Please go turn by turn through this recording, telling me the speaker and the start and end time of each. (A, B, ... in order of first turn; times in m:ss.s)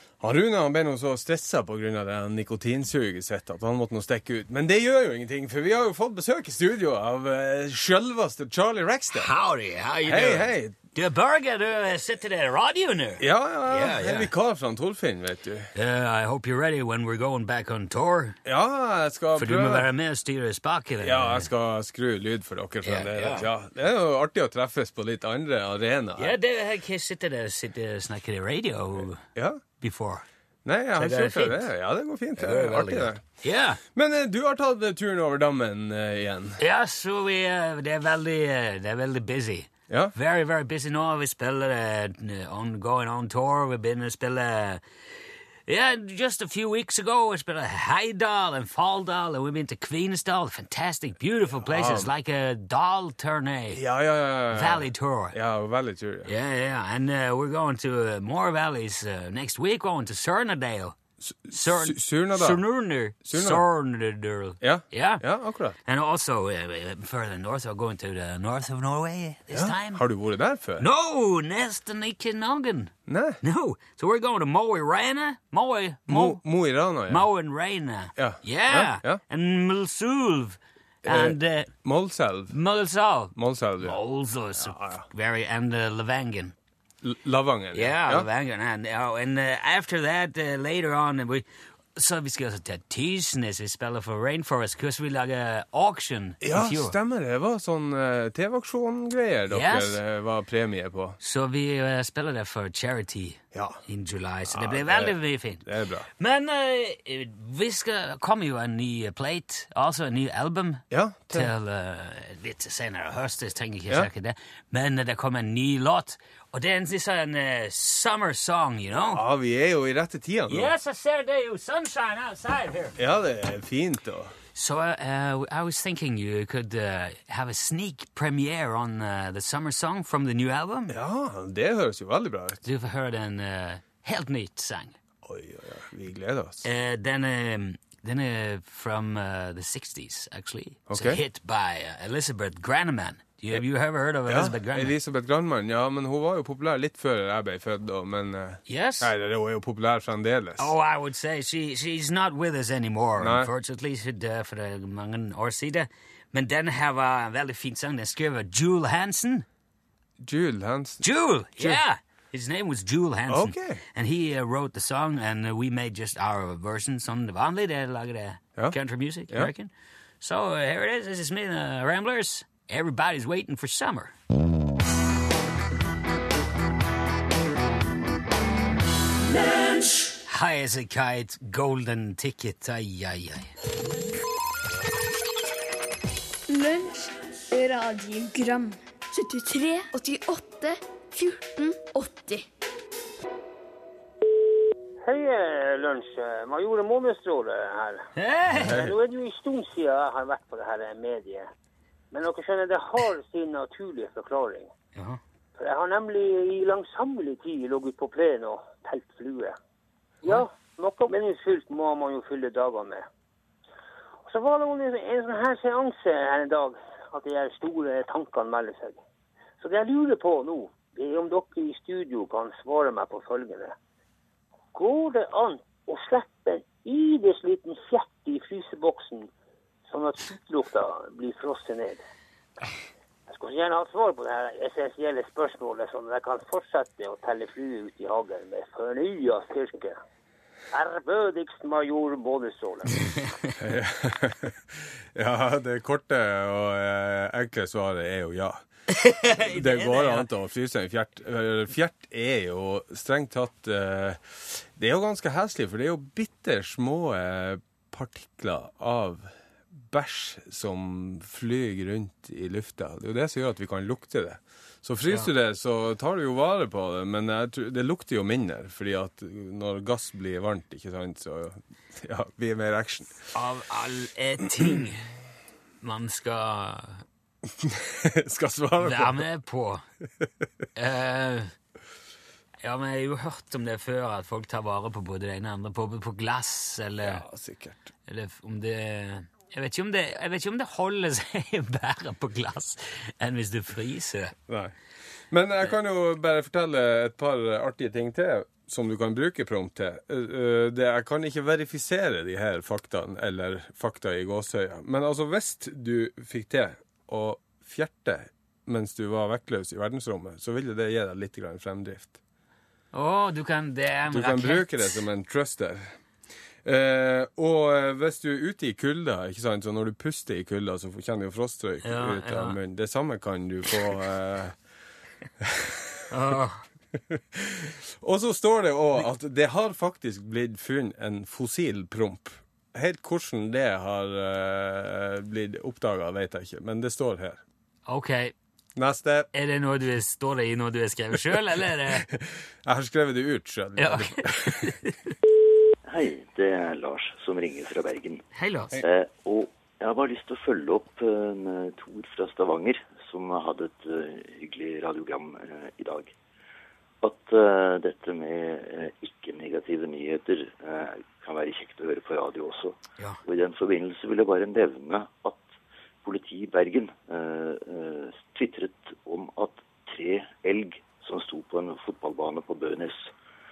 0:00.2-0:09.3 A
0:09.1-0:14.3 B
0:10.0-0:10.8 A
0:13.2-0:15.7 A
0:15.7-0:18.4 B
0:18.4-0:19.9 A
0:19.4-0:21.5 B
0:21.0-0:26.3 A
0:22.8-0:23.4 B
0:26.2-0:29.2 B
0:29.3-0:29.6 A
0:29.8-0:30.2 B
0:30.6-0:33.2 A
0:31.0-0:31.7 B
0:32.4-0:33.8 B
0:33.8-0:36.6 A
0:36.6-0:44.8 B
0:45.7-0:53.8 B
0:51.6-0:52.1 A
0:53.7-0:56.3 A
0:54.5-0:55.4 B
0:56.2-1:01.0 B
1:01.2-1:02.6 A
1:01.5-1:05.2 B
1:03.2-1:03.7 A
1:04.6-1:05.8 A
1:05.8-1:10.0 B
1:09.5-1:10.9 A
1:10.8-1:16.4 B
1:13.1-1:13.4 A
1:16.1-1:17.3 A
1:17.1-1:21.7 B
1:18.2-1:19.2 A
1:21.0-1:22.6 A
1:22.5-1:26.5 B
1:23.3-1:24.0 A
1:24.6-1:25.0 A
1:27.0-1:28.3 A
1:27.7-1:36.9 B
1:36.4-1:41.2 A
1:39.5-1:40.0 B
1:41.2-1:45.6 B
1:43.5-1:43.8 A
1:44.5-1:46.1 A
1:46.2-1:59.2 B
1:50.9-1:51.5 A
1:59.1-2:00.7 A
2:00.5-2:03.0 B
2:03.0-2:04.3 A
2:04.5-2:10.9 B
2:10.9-2:12.6 A
2:12.6-2:15.0 B
2:15.2-2:16.6 A
2:16.6-2:24.9 B
2:20.9-2:21.2 A
2:24.2-2:30.7 A
2:28.6-2:29.1 B
2:30.6-2:39.4 B
2:33.2-2:33.5 A
2:40.2-2:41.8 A
2:41.0-2:54.1 B
2:43.3-2:43.8 A
3:00.2-3:03.5 B
3:06.5-3:12.5 C
3:15.0-3:18.1 D
3:18.2-3:18.9 B
3:18.6-3:18.9 A
3:18.7-3:21.5 D
3:22.1-3:24.7 D
3:24.9-3:25.2 B
3:25.6-3:29.6 D
3:30.2-3:33.0 D
3:34.2-3:39.0 D
3:39.6-3:43.7 D
3:44.7-3:49.3 D
3:49.9-3:52.0 D
3:53.3-4:00.0 D
4:00.7-4:02.9 D
4:03.6-4:08.6 A
4:08.9-4:10.2 B
4:09.2-4:19.3 A
4:19.8-4:33.2 A
4:33.3-4:35.0 B
4:35.8-4:37.0 B
4:37.6-4:39.2 A
4:38.8-4:39.8 B
4:40.8-4:41.5 B
4:42.6-4:47.2 B
4:47.0-4:47.9 A
4:48.1-4:54.4 B
4:54.5-4:54.7 A
4:55.3-5:12.2 A
5:12.9-5:15.0 B
5:14.1-5:15.9 A
5:16.6-5:24.6 A
5:21.8-5:22.6 B
5:25.4-5:26.0 A
5:26.1-5:26.6 B
5:27.1-5:37.4 A
5:37.8-5:38.3 B
5:38.8-5:39.3 A
5:39.3-5:42.1 B
5:42.1-5:44.8 A
5:43.8-5:45.1 B
5:45.8-5:48.2 E
5:48.3-5:48.8 B
5:48.8-5:56.1 E
5:57.0-6:13.1 E